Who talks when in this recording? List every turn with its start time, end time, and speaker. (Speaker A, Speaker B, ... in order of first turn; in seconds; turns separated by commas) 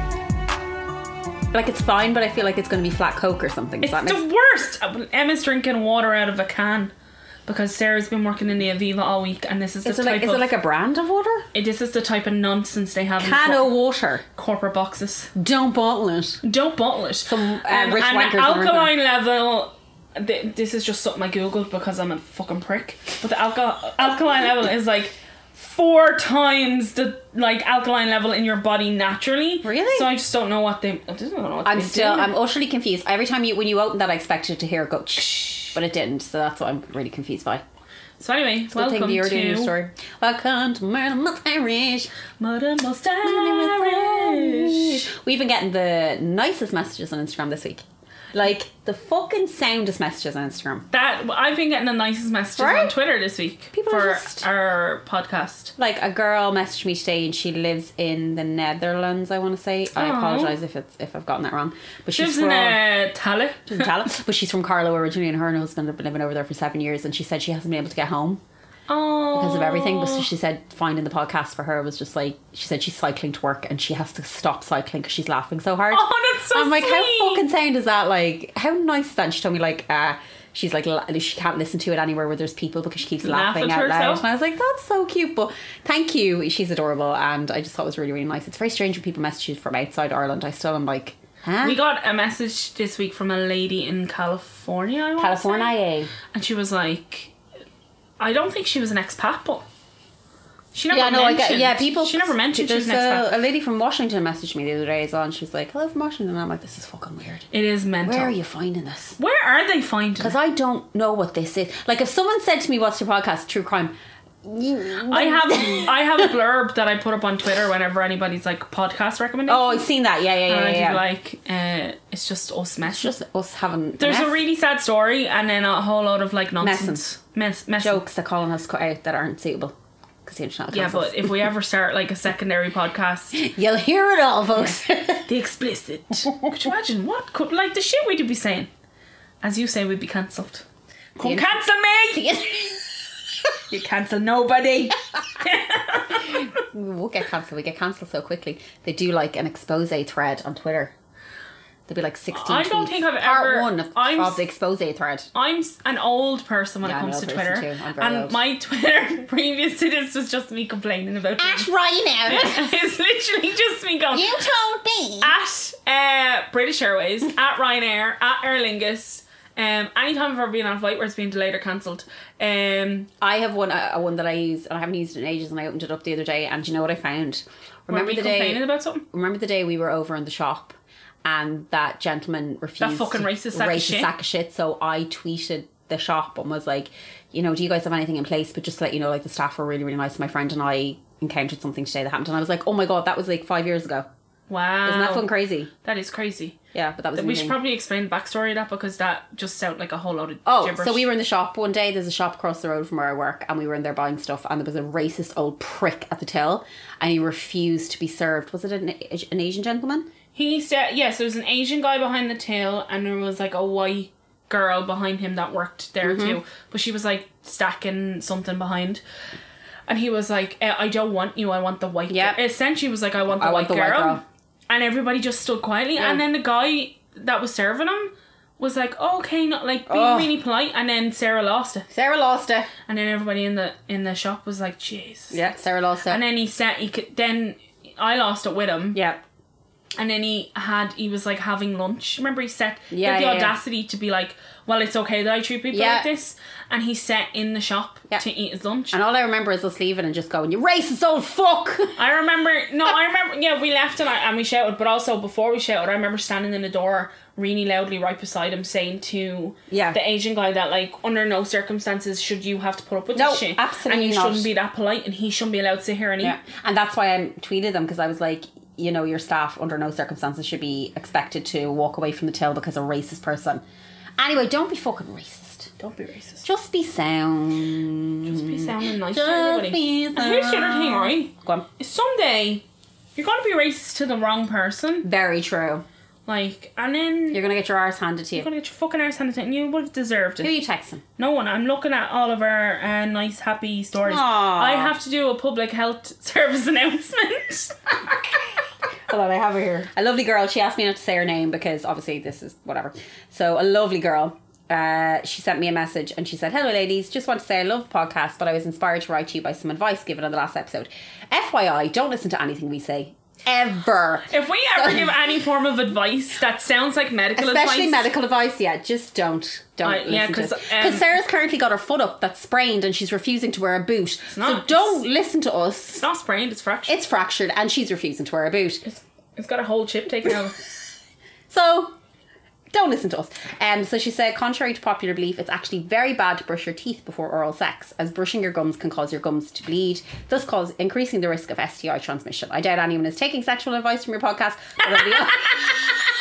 Speaker A: 1.5-4.2, Speaker B: 3.8-6.9, Speaker B: 7.5-10.5, Speaker A: 9.8-11.5, Speaker B: 11.5-13.7, Speaker A: 13.2-14.2, Speaker B: 14.3-15.3, Speaker A: 15.3-16.4, Speaker B: 16.4-32.3, Speaker A: 17.3-18.9, Speaker A: 29.6-30.1, Speaker A: 31.6-37.6, Speaker B: 35.3-35.7, Speaker B: 38.2-39.7, Speaker A: 38.7-42.1, Speaker B: 42.4-45.1, Speaker A: 43.2-47.8, Speaker A: 48.3-50.9, Speaker B: 50.9-55.7, Speaker A: 52.6-53.0, Speaker A: 53.7-54.4, Speaker A: 55.8-62.8, Speaker B: 60.0-60.6, Speaker B: 62.2-63.9, Speaker A: 63.7-68.4, Speaker B: 68.9-70.3, Speaker A: 69.3-91.8, Speaker B: 75.9-77.5, Speaker B: 83.2-84.2, Speaker B: 91.6-95.7, Speaker A: 95.2-96.1, Speaker B: 96.3-97.3, Speaker B: 98.2-99.7, Speaker B: 100.7-103.3, Speaker A: 100.9-107.5, Speaker B: 107.5-108.3, Speaker A: 108.0-109.2, Speaker B: 109.2-110.4, Speaker A: 110.2-116.3, Speaker B: 115.1-119.9, Speaker A: 119.5-121.0, Speaker B: 120.5-123.1, Speaker A: 122.9-124.3, Speaker B: 124.0-128.0, Speaker A: 126.6-127.0, Speaker A: 127.8-131.5, Speaker B: 130.7-133.4, Speaker A: 133.3-135.3, Speaker B: 135.3-138.7, Speaker B: 139.4-140.7, Speaker B: 141.2-142.8, Speaker A: 141.2-141.6, Speaker B: 143.7-146.5, Speaker A: 146.2-150.9, Speaker A: 151.9-155.3, Speaker B: 152.3-154.4, Speaker B: 155.3-161.7, Speaker A: 156.8-158.4, Speaker A: 161.4-162.7, Speaker B: 162.3-164.3, Speaker A: 164.1-165.3, Speaker B: 165.2-173.1, Speaker A: 173.2-194.1, Speaker B: 177.9-179.1, Speaker B: 182.8-184.1, Speaker B: 194.5-195.3, Speaker A: 194.8-195.7, Speaker B: 195.8-196.6, Speaker A: 196.7-197.6, Speaker B: 197.2-201.1, Speaker A: 200.4-210.1, Speaker B: 210.3-219.0, Speaker A: 216.0-216.4, Speaker B: 219.9-231.9, Speaker A: 222.1-222.4, Speaker A: 223.3-224.2, Speaker A: 226.0-226.2, Speaker A: 229.9-230.3, Speaker A: 231.9-232.7, Speaker B: 232.9-235.4, Speaker A: 235.3-236.2, Speaker B: 236.1-239.0, Speaker A: 238.9-239.2, Speaker B: 240.0-249.0, Speaker A: 242.9-243.6, Speaker A: 245.7-246.1, Speaker A: 248.9-252.0, Speaker B: 252.0-266.4, Speaker A: 259.7-260.0, Speaker A: 263.1-264.5, Speaker A: 266.2-273.6, Speaker A: 274.2-275.7, Speaker B: 275.8-276.4, Speaker A: 276.4-281.7, Speaker B: 278.2-282.6, Speaker B: 283.2-285.1, Speaker A: 285.0-285.9, Speaker B: 286.3-287.4, Speaker A: 287.3-288.5, Speaker B: 288.4-290.5, Speaker A: 290.4-291.0, Speaker B: 291.2-297.9, Speaker A: 294.1-295.0, Speaker A: 299.1-315.1, Speaker B: 314.3-318.1, Speaker A: 317.4-326.1, Speaker B: 319.8-321.1, Speaker B: 324.3-325.0, Speaker B: 326.0-326.9, Speaker A: 326.9-328.8, Speaker B: 328.8-330.6, Speaker A: 331.5-331.9, Speaker A: 332.7-346.1